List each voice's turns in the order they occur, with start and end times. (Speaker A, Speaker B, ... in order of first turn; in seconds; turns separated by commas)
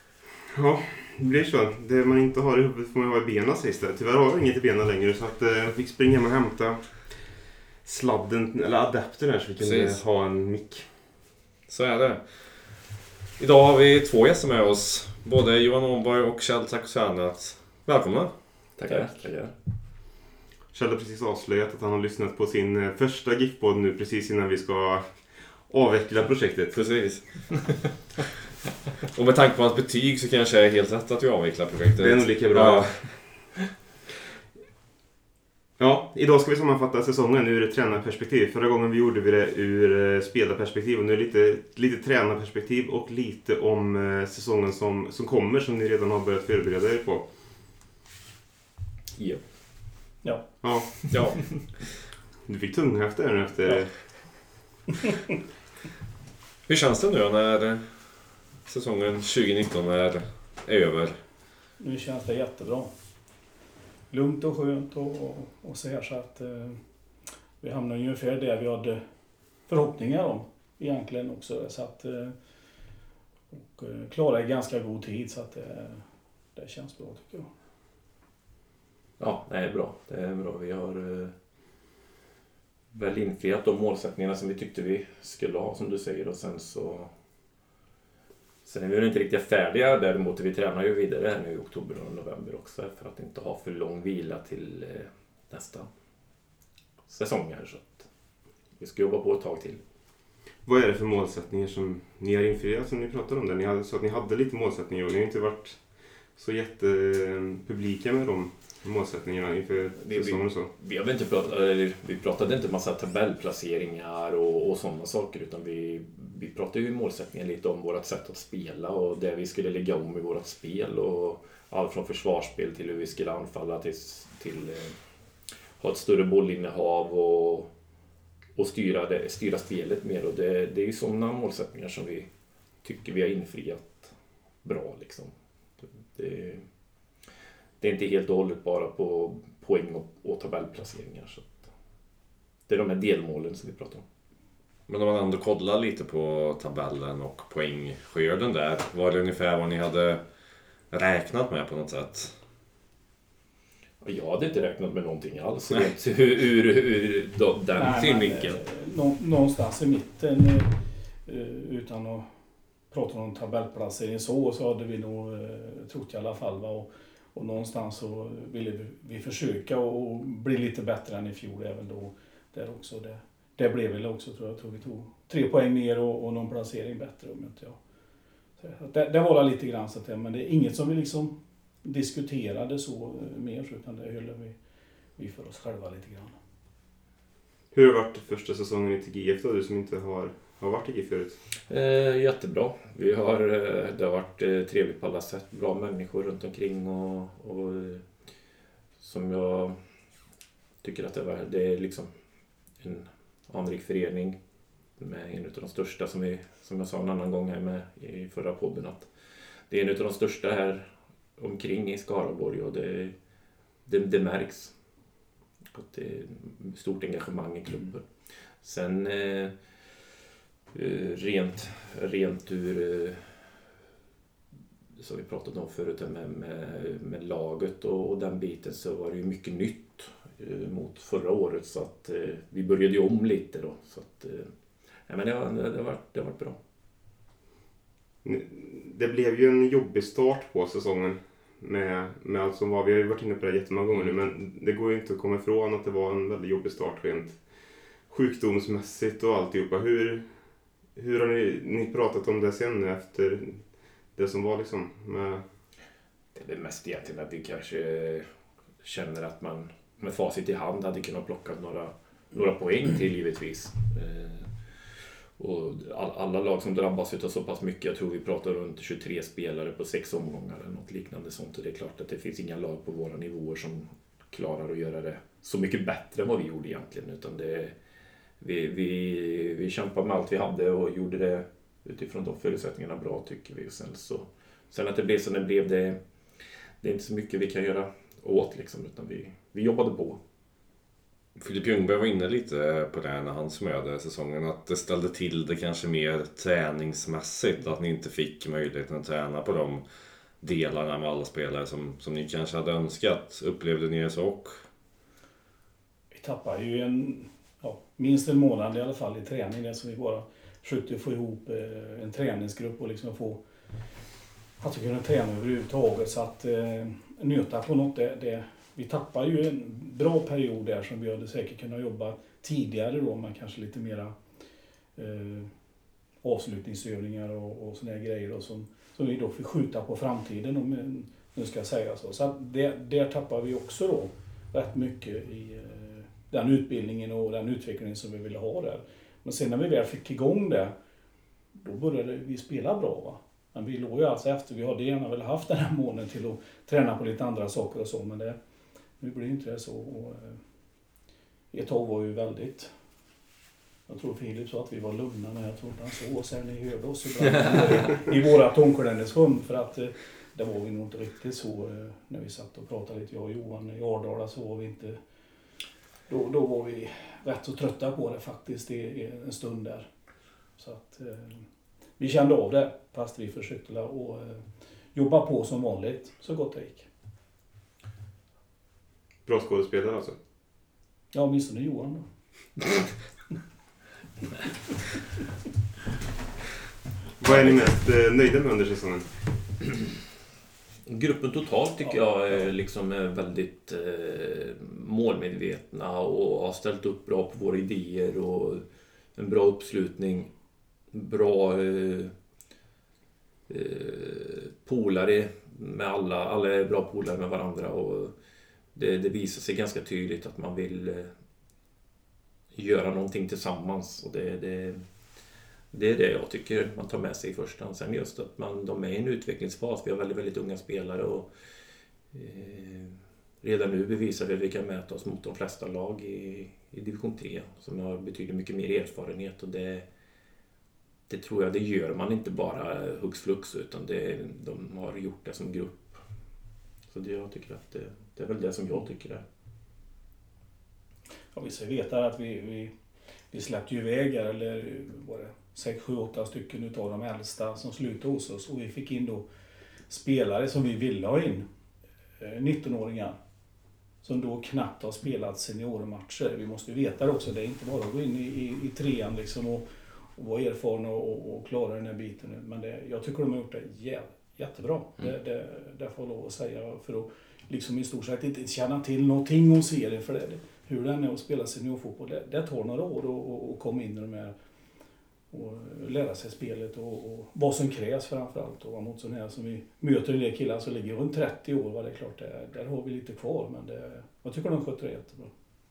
Speaker A: 0.5-10.9, Speaker B: 9.6-10.0, Speaker B: 11.7-12.7, Speaker B: 13.4-18.3, Speaker C: 18.8-19.5, Speaker A: 20.7-26.8, Speaker B: 26.7-27.8, Speaker B: 29.1-33.5, Speaker A: 32.0-33.2, Speaker A: 35.8-47.3, Speaker C: 49.2-49.4, Speaker D: 50.2-50.6, Speaker A: 50.6-51.5, Speaker B: 51.1-51.4, Speaker A: 52.4-54.4, Speaker B: 56.7-57.9, Speaker B: 58.6-61.2, Speaker D: 61.8-62.9, Speaker D: 64.1-66.8, Speaker D: 67.6-69.0, Speaker D: 69.7-72.3, Speaker D: 73.5-76.0, Speaker D: 76.5-77.5, Speaker C: 79.2-81.3, Speaker C: 82.9-87.1, Speaker C: 88.6-95.9, Speaker C: 97.1-98.1, Speaker C: 98.8-99.8, Speaker A: 100.7-110.7, Speaker C: 110.0-125.0, Speaker C: 125.8-127.7, Speaker C: 128.6-132.3, Speaker C: 132.8-134.1, Speaker C: 134.6-136.6, Speaker C: 137.8-141.7, Speaker C: 142.7-144.0, Speaker B: 144.9-150.2, Speaker B: 150.9-152.3, Speaker C: 154.0-158.6, Speaker D: 157.8-162.3, Speaker D: 162.9-177.8, Speaker D: 178.6-184.5, Speaker D: 185.2-186.3, Speaker A: 187.7-191.4, Speaker C: 191.7-198.0, Speaker C: 199.0-199.8, Speaker C: 200.8-202.1, Speaker C: 202.8-204.4, Speaker C: 205.0-209.1, Speaker C: 209.7-213.1, Speaker C: 213.8-214.7, Speaker C: 215.7-218.1, Speaker C: 218.6-219.5, Speaker C: 220.7-223.3, Speaker C: 225.0-234.5, Speaker C: 235.1-236.6, Speaker A: 238.2-255.5, Speaker C: 256.3-258.3, Speaker C: 258.8-277.7, Speaker C: 278.4-286.0, Speaker C: 286.8-290.2, Speaker B: 291.4-299.8, Speaker B: 300.4-304.6, Speaker D: 306.1-313.4, Speaker D: 314.6-324.1, Speaker D: 324.9-325.5, Speaker D: 326.2-340.7, Speaker D: 341.5-348.4, Speaker D: 349.0-350.4, Speaker D: 351.5-352.7, Speaker D: 353.9-365.0, Speaker D: 366.1-369.9, Speaker D: 370.6-371.4, Speaker D: 372.0-376.9, Speaker A: 379.2-380.2, Speaker D: 381.1-382.0, Speaker A: 387.2-389.1, Speaker C: 387.2-387.6, Speaker C: 390.9-398.6, Speaker C: 399.1-400.3, Speaker C: 400.9-402.1, Speaker C: 403.5-408.1, Speaker C: 408.7-411.1, Speaker C: 412.5-414.8, Speaker C: 415.7-421.3, Speaker C: 422.1-429.9, Speaker C: 431.1-436.0, Speaker C: 436.9-439.2, Speaker D: 441.3-442.7, Speaker D: 443.3-449.2, Speaker D: 449.9-451.5, Speaker D: 452.2-453.1, Speaker D: 454.0-474.3, Speaker D: 475.3-485.3